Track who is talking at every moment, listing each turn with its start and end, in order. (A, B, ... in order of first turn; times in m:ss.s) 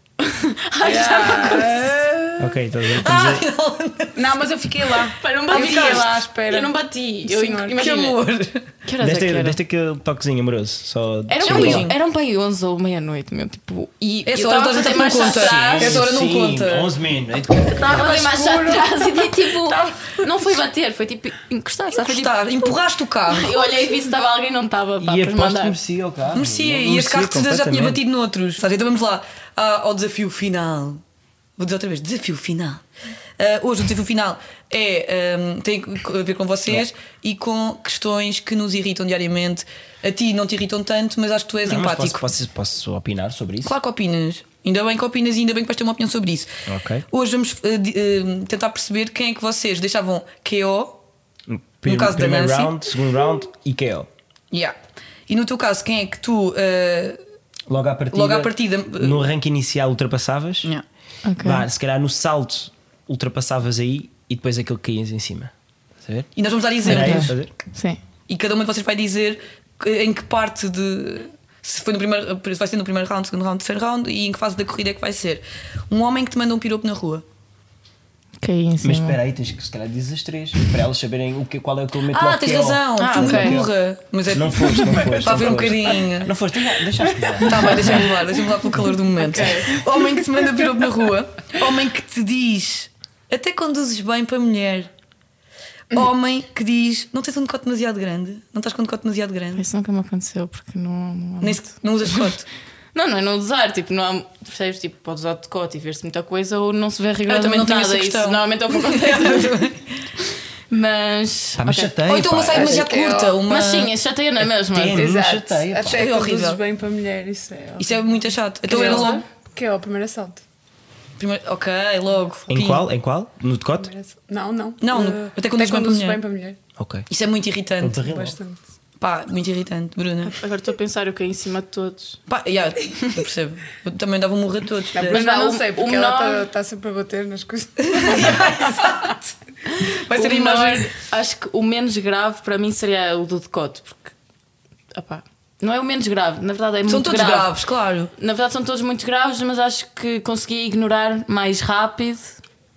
0:00.2-0:02.0 A
0:00.8-0:02.6 B
0:02.4-0:03.5 C
0:02.9-0:04.4 D
0:04.2-0:07.8 B
0:05.2-0:08.2 A
0:05.6-0:06.1 D
0:07.7-0:08.7 D
0:08.8-0:09.6 A
0:09.0-0:11.9 C
0:11.3-0:16.0 A
0:11.4-0:12.0 D
0:14.3-0:16.9 D
0:15.2-0:18.0 C
0:17.8-0:22.4 A
0:17.8-0:20.3 B
0:22.0-0:23.6 D
0:23.3-0:25.8 A
0:25.0-0:28.0 C
0:26.3-0:31.0 D
0:31.6-0:32.8 D
0:33.4-0:42.2 D
0:41.6-0:43.8 C
0:43.6-0:46.5 D
0:46.7-0:47.0 C
0:47.1-0:51.0 D
0:51.5-0:54.1 C
0:51.8-0:52.8 D
0:55.3-0:57.2 D
0:57.7-1:00.7 C
0:58.1-0:59.3 D
1:01.2-1:01.6 A
1:01.4-1:06.3 C
1:06.4-1:07.4 D
1:06.8-1:07.5 C
1:06.8-1:08.0 A
1:08.3-1:17.2 D
1:18.4-1:19.2 A
1:18.8-1:23.7 C
1:22.1-1:26.3 D
1:23.0-1:23.6 A
1:24.3-1:28.0 C
1:24.7-1:26.0 B
1:27.0-1:28.7 B
1:27.4-1:34.9 D
1:29.2-1:29.8 A
1:29.4-1:30.1 B
1:35.9-1:39.6 D
1:39.6-1:42.3 A
1:41.4-1:42.5 D
1:42.9-1:49.6 A
1:47.3-1:49.9 D
1:50.7-1:51.9 A
1:51.6-1:52.9 C
1:52.0-1:53.9 D
1:52.5-1:53.4 B
1:53.4-1:55.1 A
1:54.7-1:56.0 C
1:54.9-2:00.4 B
1:55.8-1:56.6 D
1:57.8-1:59.2 D
1:58.7-1:59.2 A
2:01.2-2:02.8 D
2:02.5-2:03.9 C
2:03.8-2:06.6 B
2:04.8-2:06.2 D
2:06.8-2:07.0 C
2:07.1-2:08.0 D
2:07.8-2:08.4 C
2:08.0-2:08.6 B
2:09.0-2:10.4 D
2:10.2-2:12.2 A
2:12.3-2:15.2 D
2:14.9-2:19.2 B
2:15.1-2:16.5 A
2:17.9-2:19.2 D
2:19.7-2:24.1 A
2:19.8-2:20.9 D
2:24.9-2:27.5 A
2:26.9-2:28.1 D
2:28.2-2:32.4 A